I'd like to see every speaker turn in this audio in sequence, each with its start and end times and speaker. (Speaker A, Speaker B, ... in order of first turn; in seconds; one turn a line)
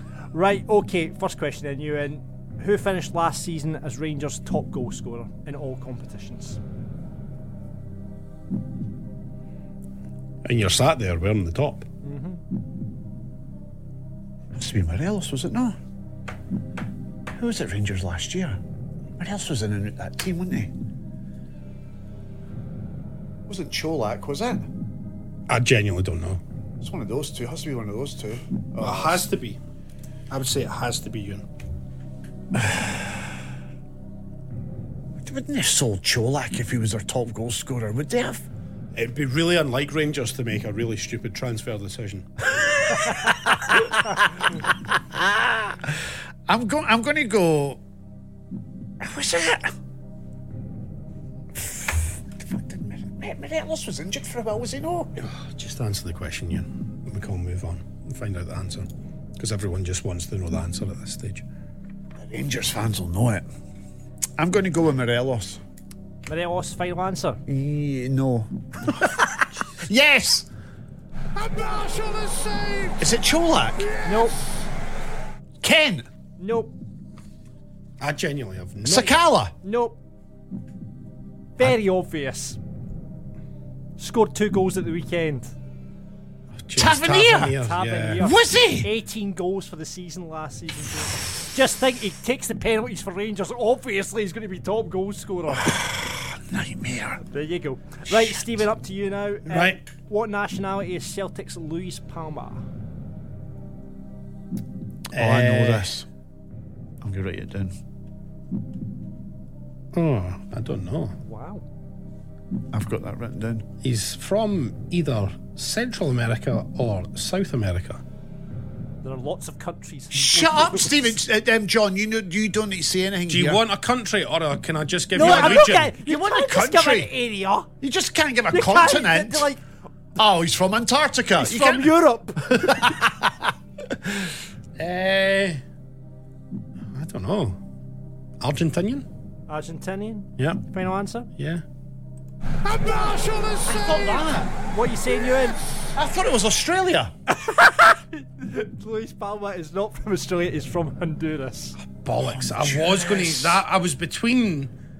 Speaker A: 0.3-6.6
Speaker B: 10.4-11.9
Speaker A: 12.0-12.4
Speaker C: 14.5-15.8
Speaker C: 17.3-18.6
Speaker C: 19.2-20.7
Speaker C: 23.5-24.7
Speaker B: 25.5-26.4
Speaker C: 26.8-29.2
Speaker B: 28.8-29.6
Speaker B: 30.3-31.4
Speaker C: 32.5-33.1
Speaker C: 35.2-38.4
Speaker B: 38.9-42.4
Speaker C: 42.5-47.8
Speaker C: 49.0-49.7
Speaker C: 51.5-55.1
Speaker B: 55.2-61.4
Speaker C: 62.2-63.4
Speaker C: 64.4-65.6
Speaker A: 66.3-67.4
Speaker C: 67.5-70.5
Speaker C: 73.0-73.9
Speaker A: 74.0-74.4
Speaker C: 75.6-76.1
Speaker A: 76.4-76.7
Speaker B: 78.0-79.2
Speaker C: 78.8-79.5
Speaker A: 79.6-80.0
Speaker A: 81.6-82.6
Speaker A: 84.0-85.5
Speaker B: 86.6-88.2
Speaker C: 86.8-87.6
Speaker A: 87.5-95.8
Speaker C: 88.2-88.9
Speaker C: 95.5-97.2
Speaker A: 97.3-102.6
Speaker C: 98.1-98.4
Speaker B: 99.5-99.8
Speaker B: 105.1-105.9
Speaker C: 105.1-106.1
Speaker C: 107.0-107.7
Speaker B: 109.9-111.2
Speaker A: 111.2-111.6
Speaker C: 112.7-113.6
Speaker B: 113.8-118.0
Speaker A: 119.0-121.1
Speaker C: 120.1-123.6
Speaker B: 123.3-125.9
Speaker A: 125.1-127.7
Speaker C: 125.2-127.1
Speaker C: 127.8-129.5
Speaker A: 128.5-129.6
Speaker C: 130.2-131.9
Speaker A: 131.3-132.9
Speaker C: 132.5-133.3
Speaker B: 134.8-135.6
Speaker B: 136.9-137.6
Speaker B: 138.4-139.1
Speaker A: 139.5-141.3
Speaker B: 140.4-140.6
Speaker B: 141.4-141.6
Speaker C: 143.6-144.5
Speaker A: 144.6-145.6
Speaker C: 145.9-147.1
Speaker A: 147.3-151.8
Speaker B: 151.8-154.7
Speaker C: 152.2-153.6